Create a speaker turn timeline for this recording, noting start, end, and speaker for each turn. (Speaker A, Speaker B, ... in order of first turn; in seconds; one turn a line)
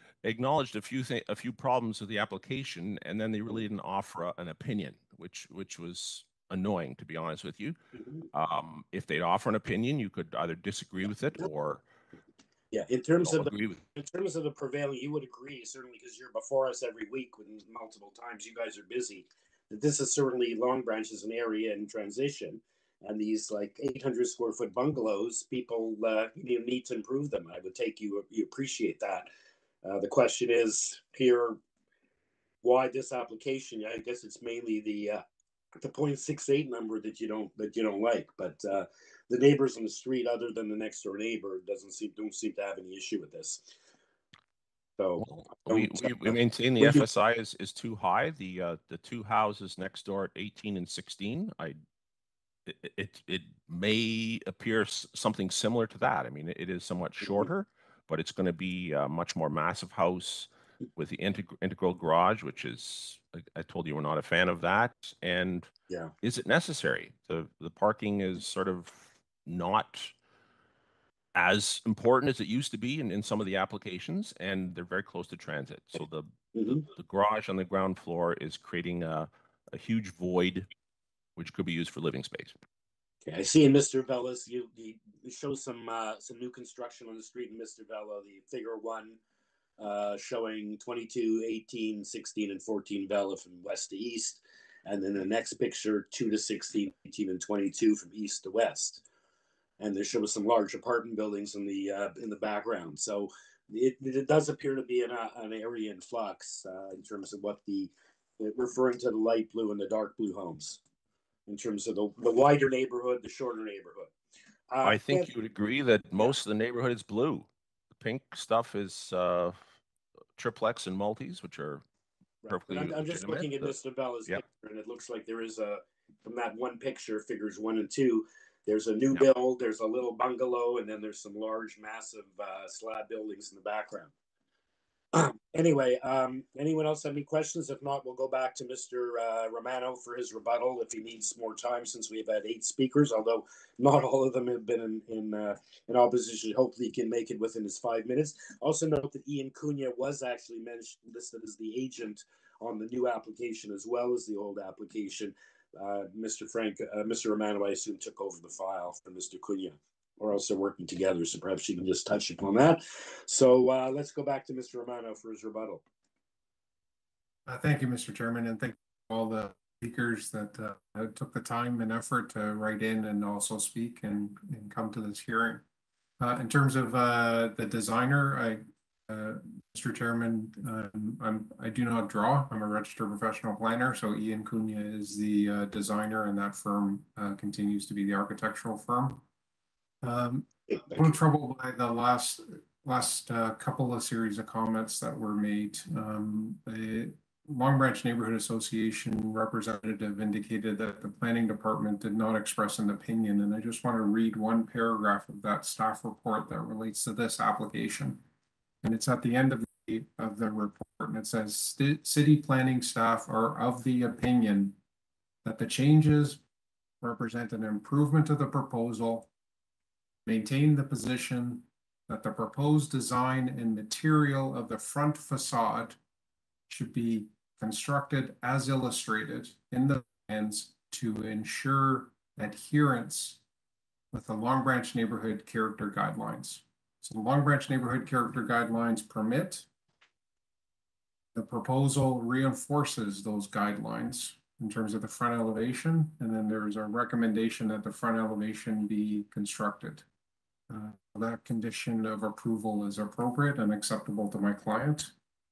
Speaker A: 0.2-7.8
Speaker B: 8.0-8.2
Speaker A: 8.3-11.8
Speaker B: 12.7-29.3
Speaker A: 13.2-13.8
Speaker B: 29.8-31.6
Speaker B: 32.6-35.2
Speaker B: 35.8-43.7
Speaker B: 45.0-47.0
Speaker A: 45.2-51.8
Speaker A: 52.7-65.7
Speaker B: 57.2-57.5
Speaker A: 66.2-70.1
Speaker A: 71.3-76.3
Speaker B: 76.5-76.8
Speaker A: 76.9-80.7
Speaker A: 81.4-82.5
Speaker B: 83.2-89.2
Speaker B: 89.8-99.0
Speaker B: 99.8-110.8
Speaker B: 111.5-114.1
Speaker B: 114.7-115.3
Speaker A: 114.8-119.8
Speaker A: 120.4-121.8
Speaker B: 122.4-134.1
Speaker A: 122.5-123.7
Speaker B: 135.1-165.8
Speaker C: 167.5-175.6
Speaker C: 176.2-189.2
Speaker C: 190.0-208.2
Speaker C: 208.8-214.8
Speaker C: 215.4-216.4
Speaker C: 217.0-219.3
Speaker C: 220.2-226.0
Speaker C: 226.7-233.4
Speaker C: 234.1-239.7
Speaker C: 241.3-250.0
Speaker C: 250.7-255.1